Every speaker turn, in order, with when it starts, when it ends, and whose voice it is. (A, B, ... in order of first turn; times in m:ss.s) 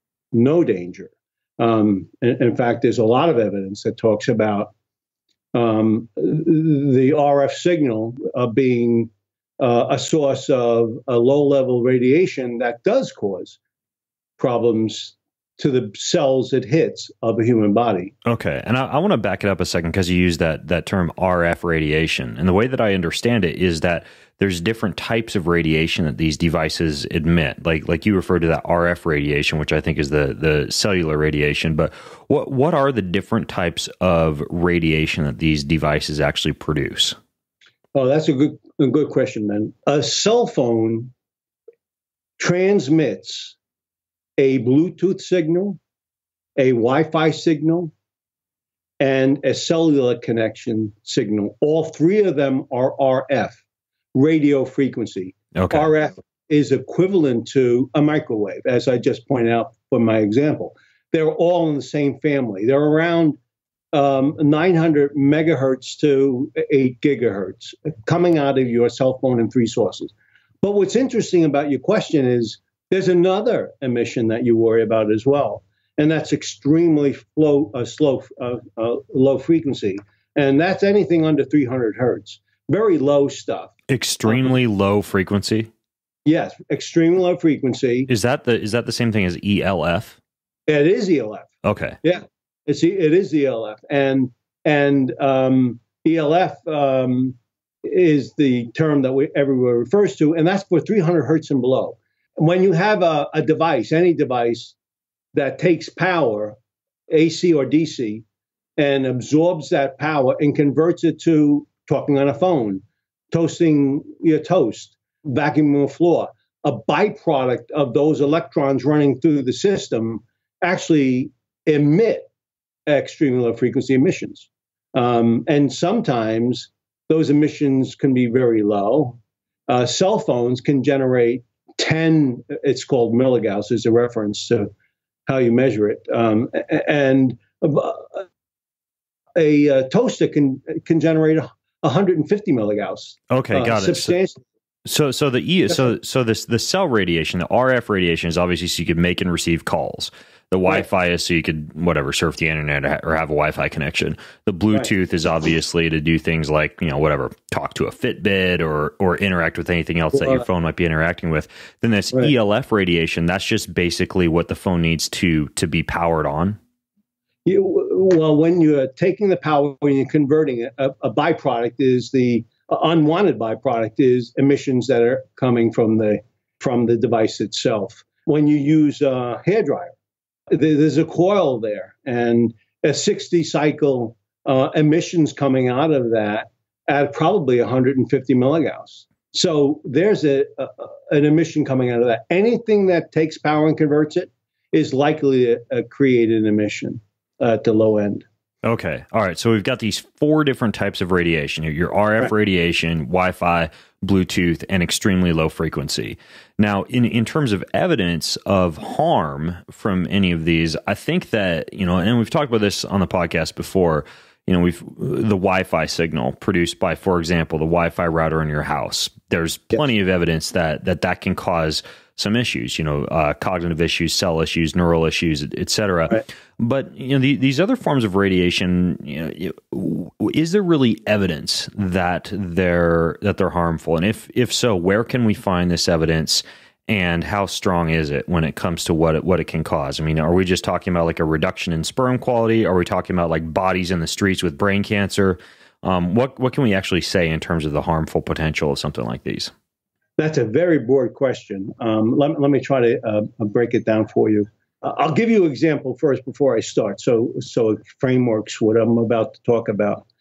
0:00.3-0:04.7 A
0:05.5-0:13.6 A
0:14.4-0:18.1 A
0:18.2-0:37.2 B
0:37.9-0:41.1 A
0:42.4-0:43.6 A
0:44.4-0:45.8 A
0:46.6-0:47.9 A
0:49.0-0:53.6 A
0:54.1-1:03.4 A
0:55.5-0:55.9 B
1:03.9-1:23.7 A
1:23.9-1:25.7 B
1:24.3-1:24.5 A
1:26.2-1:28.1 A
1:28.1-1:30.2 B
1:30.7-1:31.5 A
1:31.6-1:32.0 B
1:32.0-1:44.7 A
1:45.3-1:46.6 A
1:47.1-1:48.2 A
1:48.8-2:02.3 A
2:02.9-2:14.7 A
2:15.3-2:18.2 A
2:19.3-2:24.4 A
2:23.3-2:24.2 B
2:24.8-2:46.6 B
2:40.1-2:40.4 A
2:47.4-2:59.9 A
3:00.5-3:18.2 A
3:18.6-4:09.5 B
4:10.2-4:20.0 A